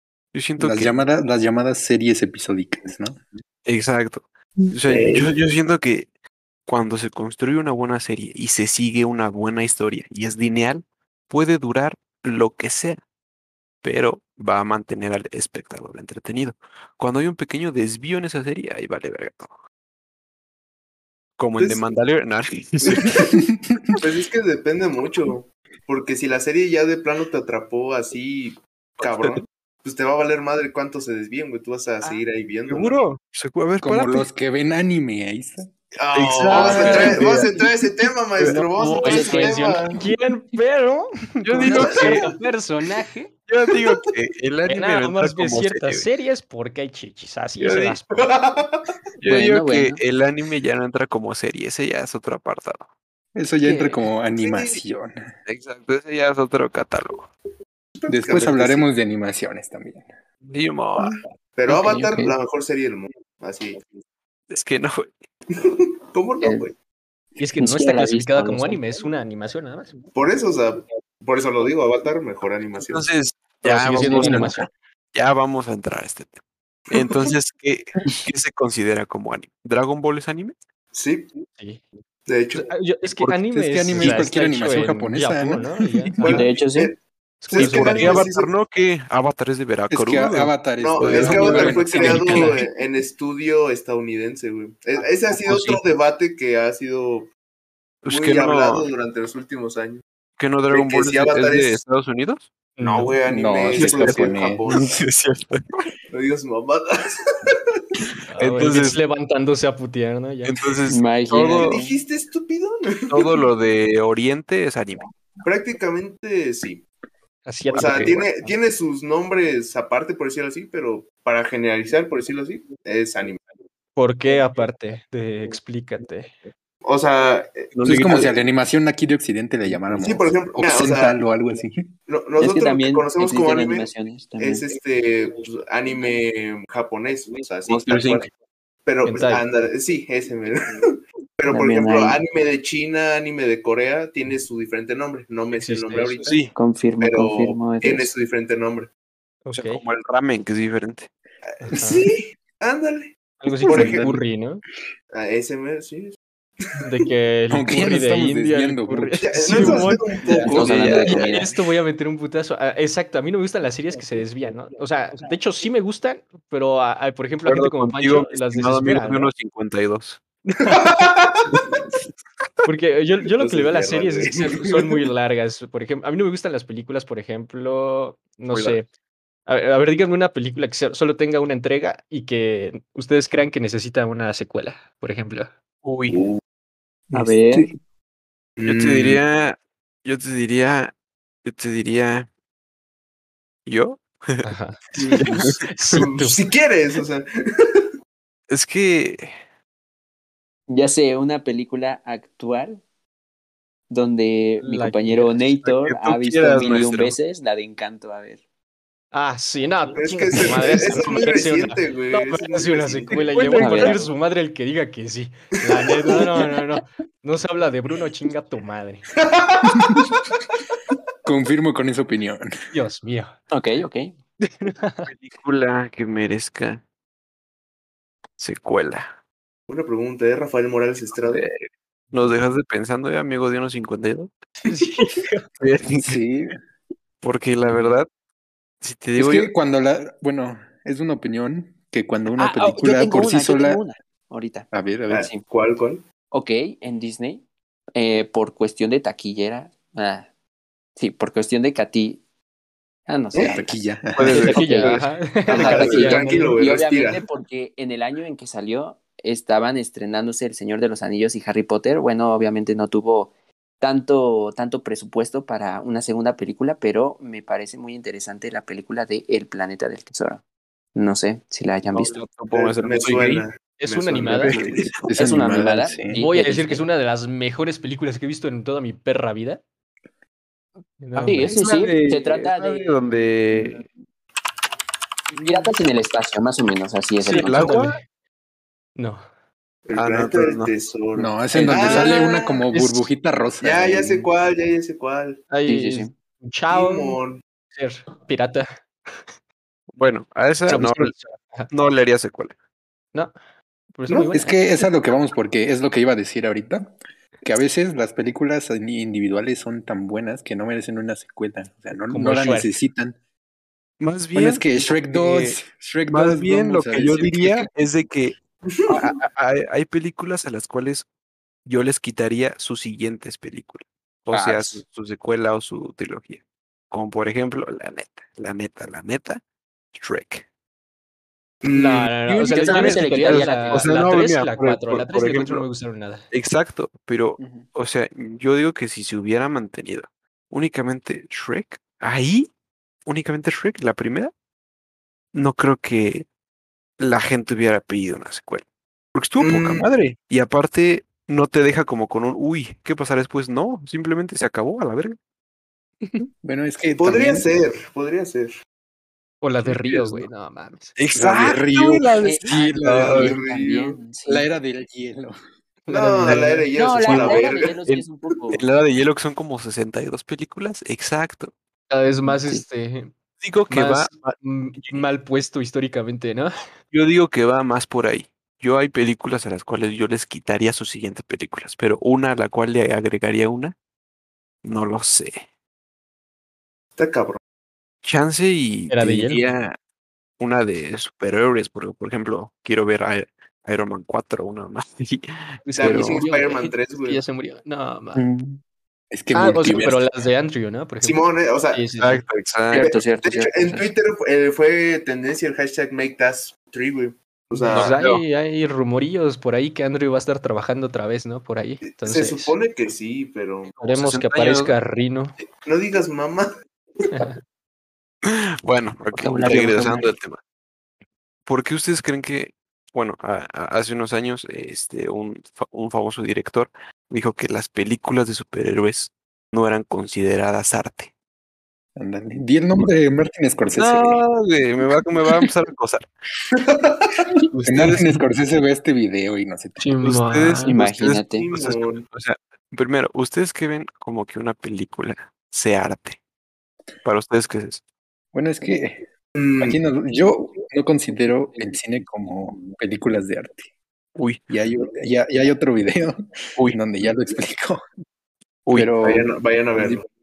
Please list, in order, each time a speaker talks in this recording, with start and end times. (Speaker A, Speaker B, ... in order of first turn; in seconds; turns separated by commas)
Speaker A: 0.3-1.0, Speaker B: 0.6-3.2, Speaker A: 3.6-6.1, Speaker C: 4.9-5.3, Speaker A: 6.7-13.0, Speaker A: 13.8-19.5, Speaker A: 21.4-23.3, Speaker C: 21.6-22.0, Speaker C: 22.8-23.4, Speaker B: 23.2-23.8, Speaker C: 24.0-33.0, Speaker A: 29.0-29.4, Speaker A: 32.0-34.3, Speaker B: 33.8-35.7, Speaker C: 36.0-40.1, Speaker A: 36.1-37.7, Speaker D: 36.5-37.2, Speaker A: 38.4-39.2, Speaker D: 38.5-43.3, Speaker E: 38.9-39.8, Speaker A: 41.4-42.3, Speaker E: 41.7-42.0, Speaker C: 41.7-42.3, Speaker A: 43.5-46.0, Speaker D: 44.7-48.3, Speaker A: 47.6-48.0, Speaker C: 48.1-48.9, Speaker A: 49.2-52.9, Speaker E: 49.3-50.0, Speaker B: 53.4-55.3, Speaker E: 53.7-53.9, Speaker C: 54.4-54.8, Speaker A: 55.5-57.3, Speaker C: 58.0-58.9, Speaker B: 58.1-60.1, Speaker A: 60.5-61.2, Speaker C: 61.6-63.9, Speaker E: 61.7-62.4, Speaker A: 64.5-65.1, Speaker C: 65.5-66.7, Speaker E: 66.4-66.7, Speaker D: 67.4-70.0, Speaker E: 67.6-68.8, Speaker C: 70.2-73.1, Speaker A: 72.8-76.4, Speaker D: 73.6-74.7, Speaker B: 74.1-74.5, Speaker C: 76.9-77.3, Speaker A: 76.9-80.5, Speaker C: 80.9-81.3, Speaker C: 82.3-82.7, Speaker D: 82.7-86.5, Speaker B: 83.5-86.2, Speaker A: 83.9-84.2, Speaker C: 86.2-87.0, Speaker E: 86.3-86.9, Speaker D: 87.4-88.3, Speaker C: 87.5-88.5, Speaker A: 87.6-92.6, Speaker B: 89.9-92.2, Speaker C: 90.8-97.3, Speaker D: 91.9-92.6, Speaker A: 98.0-98.9, Speaker C: 98.1-100.0, Speaker A: 100.4-102.5, Speaker C: 100.7-101.8, Speaker D: 102.8-103.2, Speaker C: 102.8-104.9, Speaker B: 103.3-105.0, Speaker A: 103.7-105.9, Speaker C: 106.1-106.9, Speaker A: 108.1-109.0, Speaker D: 108.3-110.5, Speaker A: 110.5-111.8, Speaker E: 110.9-111.9, Speaker C: 111.6-113.4, Speaker A: 113.1-115.1, Speaker C: 115.4-116.8, Speaker D: 117.5-118.5, Speaker C: 117.7-123.4, Speaker A: 117.8-118.2, Speaker D: 124.0-126.5, Speaker C: 126.8-128.3, Speaker A: 127.7-128.4, Speaker B: 127.8-131.9, Speaker C: 130.0-131.2, Speaker C: 132.1-138.3, Speaker E: 132.4-134.7, Speaker A: 137.7-138.3, Speaker C: 138.9-140.6, Speaker D: 139.0-139.4, Speaker C: 141.4-146.4, Speaker E: 141.5-142.2, Speaker D: 145.6-146.3, Speaker A: 146.2-146.5, Speaker E: 146.5-148.1, Speaker C: 147.0-148.9, Speaker D: 149.4-149.8, Speaker A: 149.5-151.1, Speaker D: 151.6-152.1, Speaker C: 151.6-153.2, Speaker D: 153.4-154.6, Speaker A: 153.7-154.0, Speaker C: 153.7-154.2, Speaker C: 155.1-156.8, Speaker D: 156.8-169.3, Speaker B: 157.5-160.0, Speaker C: 159.2-161.5, Speaker A: 160.2-160.6, Speaker E: 160.4-161.5, Speaker A: 167.4-170.2, Speaker C: 170.7-171.8, Speaker D: 172.6-178.9, Speaker C: 173.4-175.0, Speaker A: 178.5-178.8, Speaker D: 179.5-185.5, Speaker A: 185.8-186.2, Speaker C: 186.1-186.4, Speaker E: 187.1-187.7, Speaker C: 188.6-189.2, Speaker A: 188.7-190.9, Speaker A: 191.4-192.3, Speaker A: 193.7-194.5, Speaker D: 194.4-196.4, Speaker C: 195.0-197.8, Speaker A: 195.2-195.6, Speaker A: 198.5-199.3, Speaker E: 200.7-202.8, Speaker E: 203.9-208.4, Speaker D: 204.6-205.3, Speaker A: 205.1-207.2, Speaker D: 209.1-219.1, Speaker C: 209.9-213.2, Speaker A: 213.1-214.1, Speaker E: 213.6-214.0, Speaker C: 219.2-220.3, Speaker B: 221.2-222.5, Speaker D: 222.7-223.3, Speaker E: 223.5-224.1, Speaker D: 224.4-225.1, Speaker A: 225.1-226.8, Speaker A: 228.4-229.1, Speaker C: 229.7-231.5, Speaker A: 231.2-234.3, Speaker D: 234.7-235.5, Speaker A: 235.6-236.2, Speaker B: 236.0-236.5, Speaker A: 237.2-238.1, Speaker A: 238.8-239.5, Speaker B: 239.2-243.8, Speaker E: 242.4-244.7, Speaker B: 244.7-245.3, Speaker C: 245.1-246.0, Speaker E: 246.3-247.4, Speaker E: 247.9-250.3, Speaker E: 251.0-252.2, Speaker E: 253.1-253.7, Speaker C: 253.3-253.6, Speaker B: 253.4-254.3, Speaker A: 254.2-255.0, Speaker D: 254.3-256.5, Speaker E: 254.3-263.3, Speaker C: 254.9-257.2, Speaker A: 255.7-256.1, Speaker E: 263.8-270.4, Speaker E: 270.9-272.2, Speaker A: 271.9-273.5, Speaker C: 272.5-274.9, Speaker D: 273.8-274.6, Speaker A: 274.3-275.1, Speaker B: 274.5-276.2, Speaker E: 275.1-276.9, Speaker D: 276.2-279.6, Speaker D: 281.0-281.7, Speaker E: 281.1-282.9, Speaker A: 281.4-283.9, Speaker E: 285.4-287.8, Speaker D: 287.2-288.0, Speaker A: 287.3-288.0, Speaker D: 289.0-289.2, Speaker C: 289.9-292.5, Speaker A: 289.9-290.7, Speaker B: 291.1-294.3, Speaker D: 292.7-293.1, Speaker C: 293.6-295.5, Speaker D: 295.5-297.2, Speaker E: 295.7-296.1, Speaker C: 296.7-297.4, Speaker D: 297.8-299.2, Speaker A: 299.9-301.1, Speaker D: 300.7-301.7, Speaker A: 301.7-302.5, Speaker D: 303.9-304.6, Speaker B: 304.3-313.1, Speaker D: 312.1-312.8, Speaker A: 314.0-315.6, Speaker B: 314.4-317.7, Speaker A: 316.1-318.4, Speaker C: 318.7-319.1, Speaker A: 318.9-321.1, Speaker A: 321.7-329.4, Speaker E: 324.3-324.8, Speaker A: 329.9-330.5, Speaker C: 331.6-332.5, Speaker D: 331.7-336.2, Speaker E: 332.4-334.0, Speaker A: 332.6-335.6, Speaker A: 336.3-342.5, Speaker E: 337.4-337.6, Speaker A: 343.1-344.3, Speaker A: 345.3-346.3, Speaker A: 347.0-348.6, Speaker A: 349.1-355.2, Speaker C: 349.4-349.9, Speaker D: 356.0-356.3, Speaker B: 356.4-357.5, Speaker C: 357.0-358.5, Speaker D: 359.4-360.9, Speaker A: 359.6-360.3, Speaker A: 361.0-363.4, Speaker B: 361.1-363.0, Speaker E: 362.2-364.5, Speaker C: 362.8-364.0, Speaker B: 364.2-365.4, Speaker D: 365.9-366.7, Speaker C: 365.9-367.8, Speaker A: 366.2-366.5, Speaker E: 366.8-368.6, Speaker A: 367.0-371.5, Speaker D: 371.9-373.1, Speaker E: 372.2-372.6, Speaker A: 373.4-375.0, Speaker D: 373.7-376.5, Speaker A: 376.9-383.8, Speaker A: 384.6-385.4, Speaker C: 387.0-387.4, Speaker A: 388.0-389.8, Speaker D: 388.9-389.4, Speaker A: 390.4-396.2, Speaker D: 395.6-398.2, Speaker C: 395.8-397.2, Speaker B: 398.2-400.2, Speaker D: 399.3-402.2, Speaker C: 401.0-401.8, Speaker A: 402.0-402.9, Speaker E: 402.7-403.9, Speaker C: 402.7-407.9, Speaker D: 407.5-412.6, Speaker A: 407.7-408.2, Speaker C: 412.0-413.7, Speaker D: 413.7-415.4, Speaker A: 413.9-414.7, Speaker C: 415.6-416.5, Speaker D: 417.1-417.4, Speaker A: 418.2-420.4, Speaker E: 419.1-420.1, Speaker A: 421.5-431.1, Speaker B: 432.0-434.2, Speaker A: 433.8-436.1, Speaker C: 436.5-437.3, Speaker A: 437.5-438.1, Speaker B: 437.7-439.9, Speaker D: 439.8-440.8, Speaker A: 440.0-446.2, Speaker E: 440.6-441.5, Speaker C: 441.1-442.0, Speaker A: 447.0-447.8, Speaker B: 448.3-449.1, Speaker C: 449.4-449.8, Speaker B: 449.6-453.7, Speaker B: 454.5-457.9, Speaker A: 458.7-458.9, Speaker B: 458.7-460.0, Speaker C: 459.0-460.1